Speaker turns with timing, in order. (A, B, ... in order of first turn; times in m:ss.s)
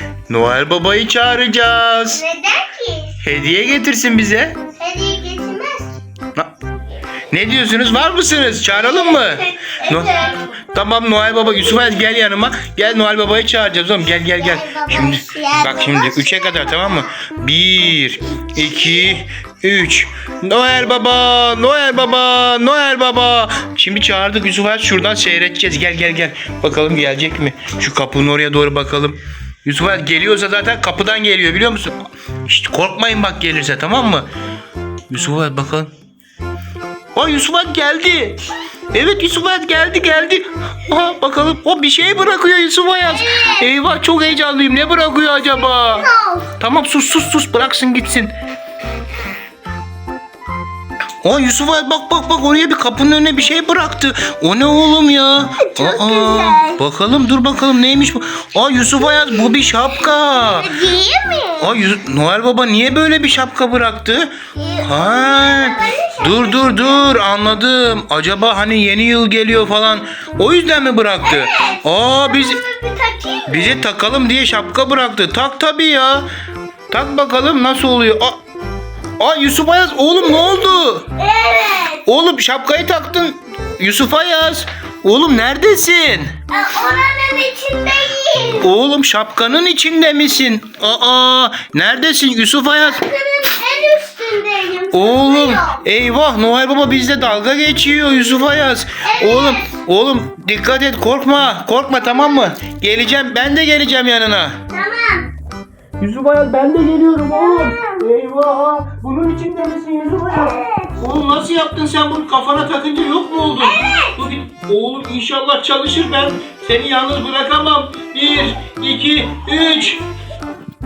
0:00.3-0:02.2 A
0:02.1-0:03.2 B
0:03.2-0:04.6 A
0:04.8-0:05.9 B
0:07.3-0:34.3 A
0:08.7-0:10.4 B
0:14.3-0:17.1 B
0:18.6-0:19.2 B
0:35.1-0:35.9 A
0:37.1-0:38.4 A
0:38.9-0:46.0 A
0:43.1-0:43.7 B
0:45.5-0:46.6 B
0:46.6-0:48.3 A
0:51.2-1:00.7 A
0:55.6-0:56.8 B
0:59.0-0:59.5 B
1:00.4-1:01.7 B
1:01.6-1:04.3 A
1:04.5-1:07.1 B
1:04.8-1:12.6 A
1:11.2-1:13.8 B
1:13.5-1:16.3 A
1:16.9-1:18.4 A
1:19.2-1:21.1 A
1:21.2-1:22.0 B
1:22.0-1:26.3 A
1:26.5-1:28.7 B
1:28.6-1:33.0 A
1:32.7-1:35.8 B
1:34.9-1:44.6 A
1:39.0-1:39.7 B
1:42.0-1:42.5 B
1:44.7-1:45.3 B
1:46.0-2:00.0 A
1:47.3-1:48.0 B
1:50.3-1:51.1 B
1:53.6-1:54.1 B